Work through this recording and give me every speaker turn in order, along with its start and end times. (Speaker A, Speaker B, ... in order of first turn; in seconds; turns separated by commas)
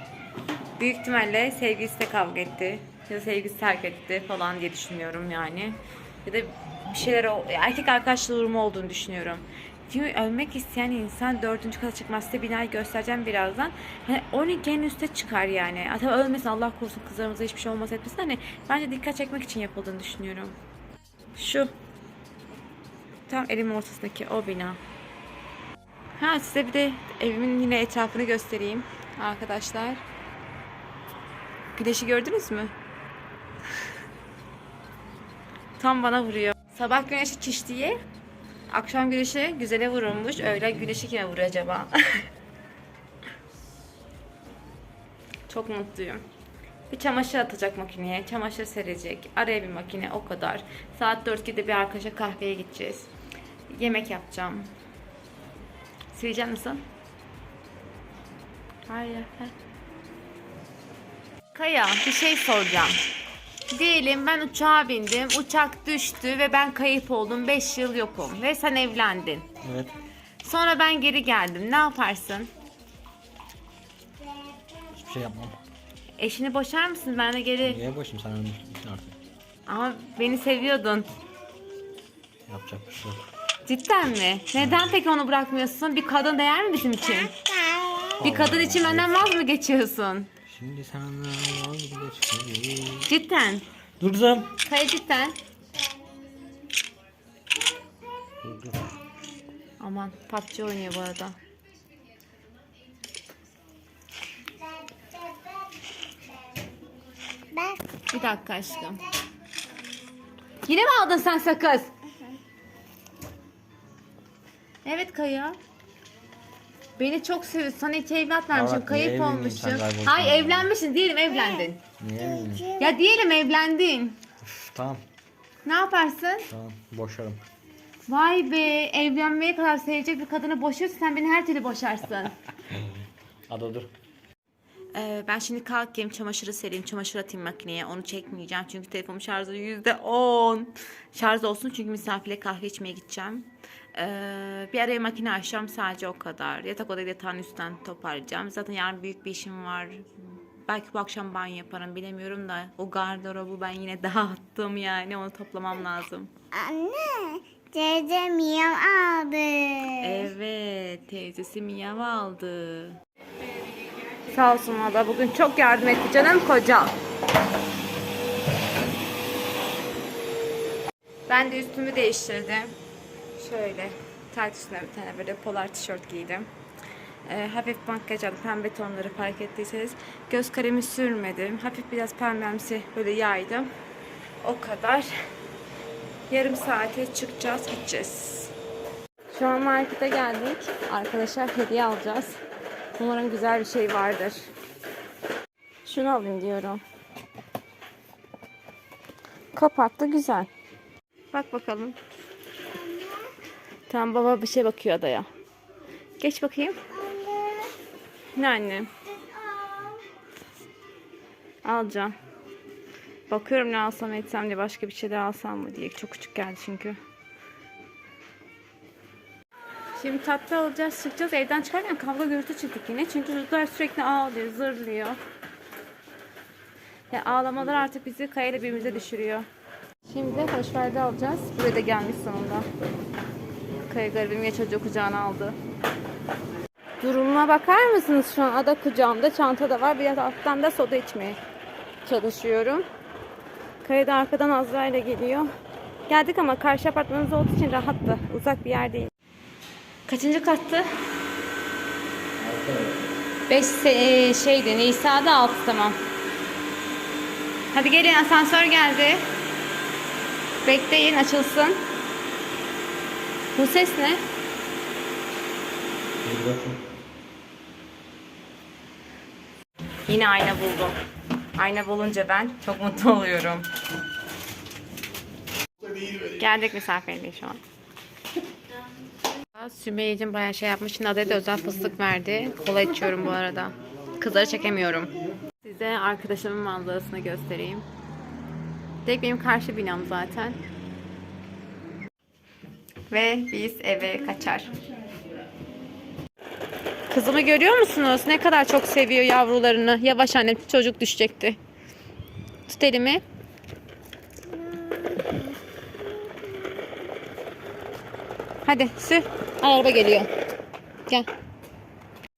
Speaker A: 0.8-20.6, Speaker A: 21.3-21.7, Speaker A: 23.3-24.8, Speaker A: 26.2-30.0, Speaker A: 31.7-32.7, Speaker A: 35.8-38.0, Speaker A: 38.7-42.2, Speaker A: 45.5-46.2, Speaker A: 46.9-53.1, Speaker A: 53.7-54.7, Speaker A: 56.1-56.8, Speaker A: 58.9-59.5, Speaker A: 61.5-63.0, Speaker A: 63.7-69.5, Speaker B: 69.6-70.0, Speaker A: 70.4-72.5, Speaker B: 74.8-75.6, Speaker A: 76.2-77.8, Speaker B: 77.6-79.1, Speaker A: 79.7-81.1, Speaker B: 82.5-83.2, Speaker A: 83.6-90.3, Speaker B: 84.5-84.9, Speaker B: 88.1-89.2, Speaker B: 90.5-93.1, Speaker A: 93.1-93.7, Speaker B: 94.0-94.6, Speaker A: 94.6-95.3, Speaker B: 98.4-99.0, Speaker A: 99.8-101.3, Speaker A: 108.1-109.1, Speaker A: 110.6-111.9, Speaker A: 114.8-115.6, Speaker A: 117.0-121.8, Speaker B: 118.5-120.7, Speaker B: 122.0-122.8, Speaker A: 122.7-124.2, Speaker B: 124.4-125.0, Speaker A: 125.6-126.5, Speaker B: 126.5-127.4, Speaker A: 128.1-132.4, Speaker B: 132.7-132.9, Speaker B: 133.5-133.9, Speaker A: 134.9-156.3, Speaker C: 156.5-159.9, Speaker A: 159.9-163.0, Speaker A: 164.1-167.0, Speaker A: 171.3-172.8, Speaker A: 173.3-176.5, Speaker A: 177.2-183.7, Speaker A: 184.4-185.1, Speaker A: 186.3-188.5, Speaker A: 189.3-192.4, Speaker A: 193.0-194.5, Speaker A: 195.8-196.8, Speaker A: 199.5-200.5, Speaker A: 201.3-202.0, Speaker A: 203.9-205.3, Speaker A: 206.2-206.9, Speaker A: 208.3-208.9, Speaker A: 211.6-212.2, Speaker A: 213.3-217.0, Speaker A: 219.9-225.2, Speaker A: 227.1-229.5, Speaker A: 230.0-232.7, Speaker A: 233.8-235.6, Speaker A: 237.0-241.4, Speaker A: 242.0-242.8, Speaker A: 243.8-245.5, Speaker A: 246.1-249.1, Speaker A: 250.1-250.9, Speaker B: 252.4-253.0, Speaker A: 253.5-256.0, Speaker A: 257.7-259.3, Speaker A: 260.6-261.8, Speaker A: 263.5-264.2, Speaker B: 266.2-266.8, Speaker A: 270.1-271.0, Speaker A: 271.6-273.7, Speaker A: 276.2-277.6, Speaker A: 279.5-287.9, Speaker A: 289.0-290.6, Speaker A: 293.1-294.8, Speaker A: 297.1-301.6, Speaker A: 302.7-303.2, Speaker A: 308.6-310.3